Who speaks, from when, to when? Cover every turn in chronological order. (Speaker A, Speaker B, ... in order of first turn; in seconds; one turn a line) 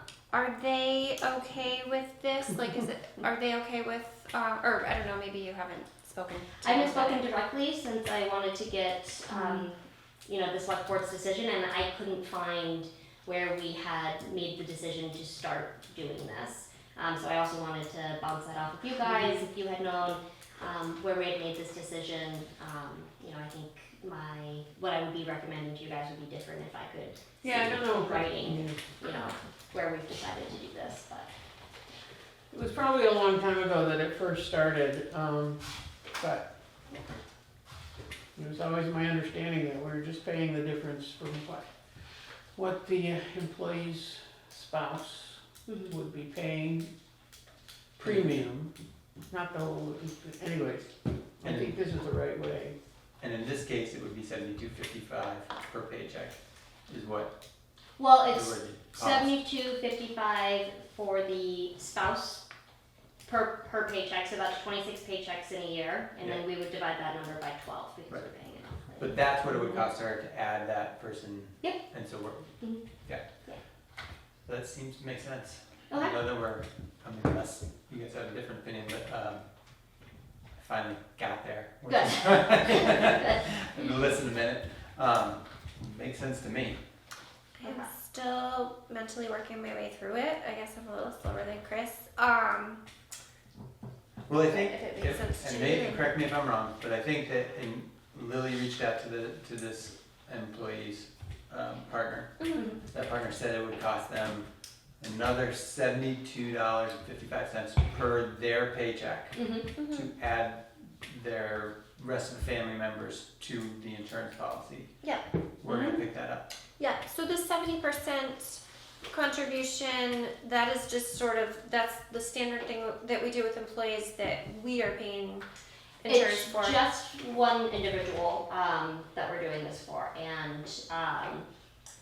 Speaker A: 0.3-7.2
Speaker B: 6.6-31.3
Speaker C: 9.3-9.7
Speaker C: 19.1-19.4
Speaker C: 27.4-28.8
Speaker C: 32.5-36.5
Speaker C: 38.4-46.9
Speaker B: 45.7-45.9
Speaker C: 48.0-48.7
Speaker D: 48.0-48.5
Speaker C: 49.3-52.8
Speaker D: 51.4-51.8
Speaker D: 53.2-56.4
Speaker D: 56.9-57.3
Speaker B: 58.0-62.4
Speaker D: 58.3-59.4
Speaker B: 63.2-69.9
Speaker D: 69.0-73.2
Speaker D: 74.5-79.5
Speaker B: 75.9-76.2
Speaker D: 80.6-86.8
Speaker B: 81.9-83.5
Speaker A: 87.6-92.8
Speaker B: 87.6-87.9
Speaker D: 94.3-115.0
Speaker B: 94.5-95.0
Speaker A: 94.8-96.1
Speaker A: 102.4-102.7
Speaker B: 102.5-102.8
Speaker B: 109.3-109.7
Speaker A: 109.8-110.1
Speaker A: 115.0-116.0
Speaker D: 115.6-116.5
Speaker A: 116.8-125.5
Speaker A: 126.0-126.8
Speaker B: 126.1-131.5